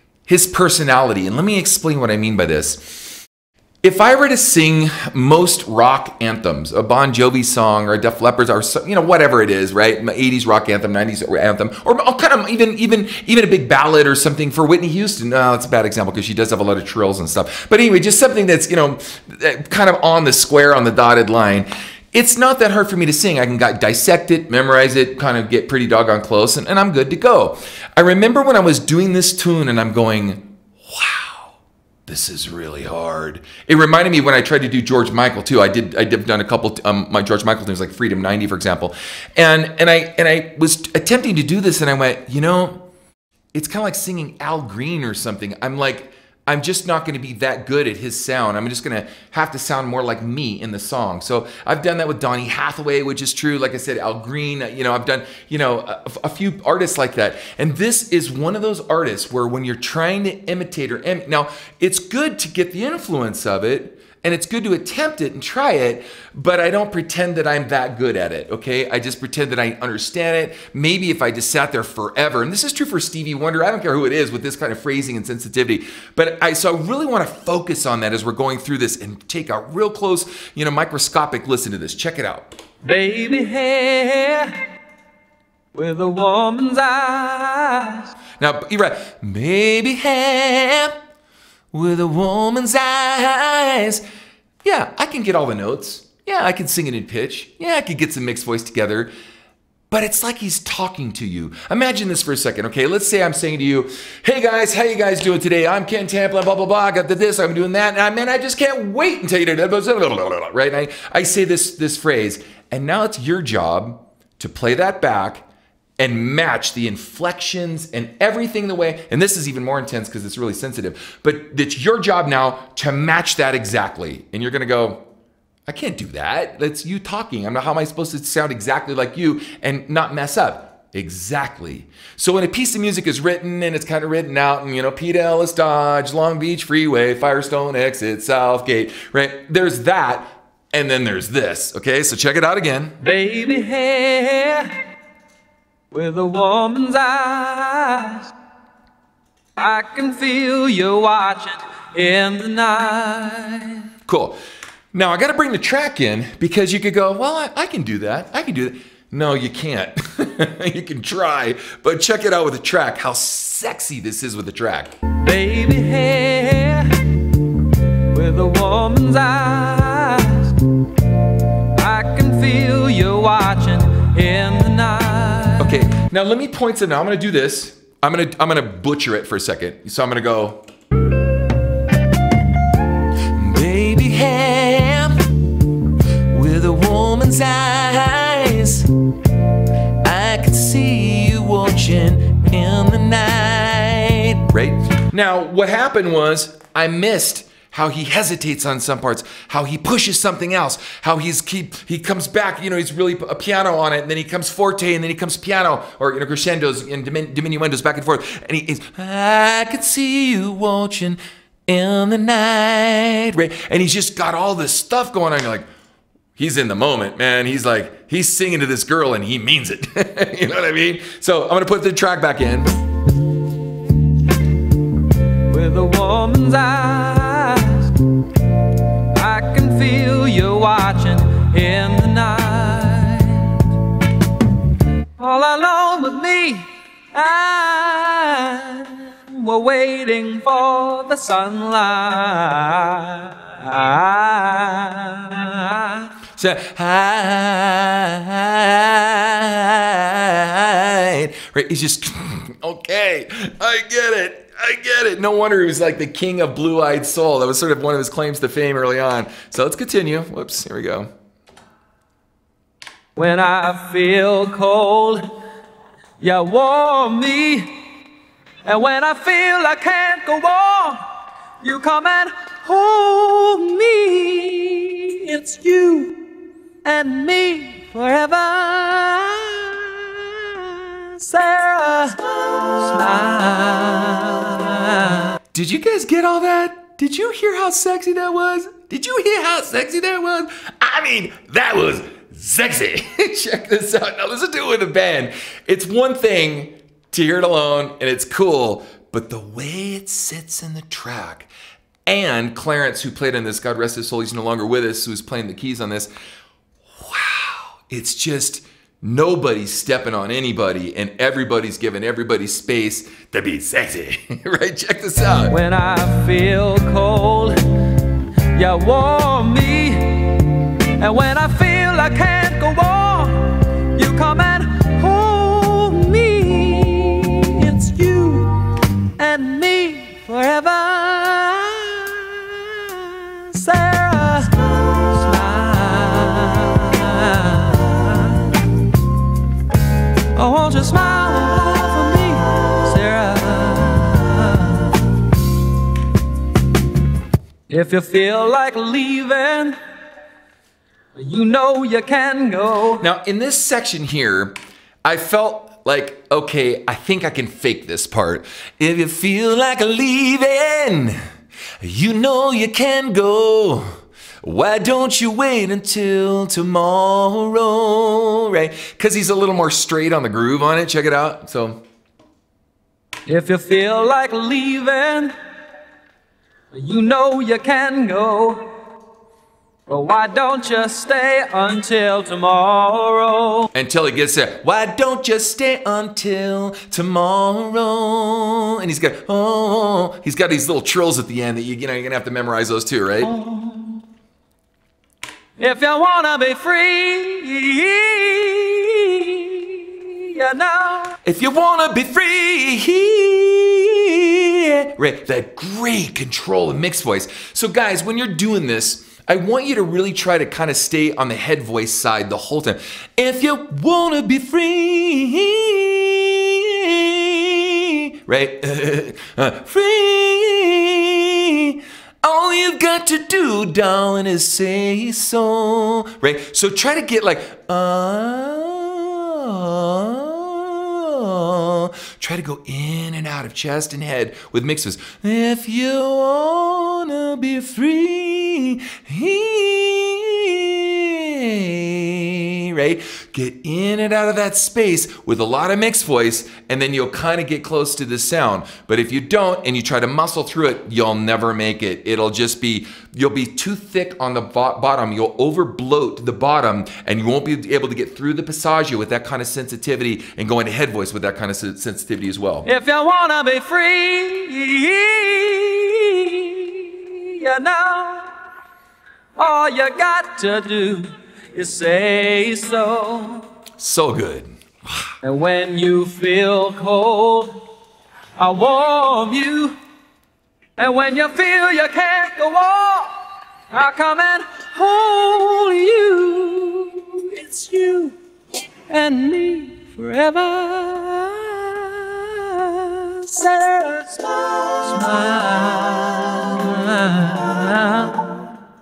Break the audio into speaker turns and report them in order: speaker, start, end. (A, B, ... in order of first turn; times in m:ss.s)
0:00.3-0:03.1 A
0:03.8-0:31.5 A
0:32.1-0:42.8 A
0:43.5-1:22.5 A
1:22.8-1:24.5 B
1:25.7-1:28.1 B
1:28.4-1:31.0 A
1:31.7-1:34.0 A
1:34.6-1:39.1 A
1:39.9-1:55.4 A
1:56.0-2:05.0 A
2:05.7-2:23.0 A
2:23.0-2:24.7 B
2:25.9-2:28.3 B
2:29.6-2:33.8 B
2:34.1-2:34.4 A
2:34.9-2:44.9 A
2:45.2-2:47.2 B
2:48.1-2:50.6 B
2:51.8-2:55.8 B
2:55.6-3:00.6 A
3:03.3-3:05.3 A
3:06.3-3:08.9 A
3:10.0-3:35.7 A
3:36.4-3:42.7 A
3:45.5-3:48.0 B
3:49.1-3:53.7 B
3:55.2-4:06.1 B
4:06.3-4:21.1 A
4:23.2-4:25.2 B
4:26.2-4:27.7 B
4:28.6-4:31.0 B
4:31.6-4:36.2 B
4:36.8-4:45.4 B
4:45.5-5:01.5 A
5:02.0-5:06.1 A
5:07.0-5:15.6 A
5:15.5-5:38.9 B
5:40.3-5:45.4 B
5:47.7-5:49.7 B
5:51.2-5:53.0 B
5:53.0-6:01.2 A
6:01.8-6:03.9 A
6:04.4-6:11.8 A
6:13.2-6:15.3 B
6:16.7-6:18.6 B
6:19.9-6:23.7 B
6:23.7-6:33.3 A
6:33.2-6:34.0 B
6:35.6-6:41.2 B
6:41.2-7:42.7 A
7:42.6-7:48.3 B
7:49.4-7:53.4 B
7:53.8-7:54.5 A
7:55.2-7:57.5 B
7:58.4-7:59.7 B
8:00.8-8:03.2 B
8:03.7-8:08.2 B
8:08.9-8:18.5 B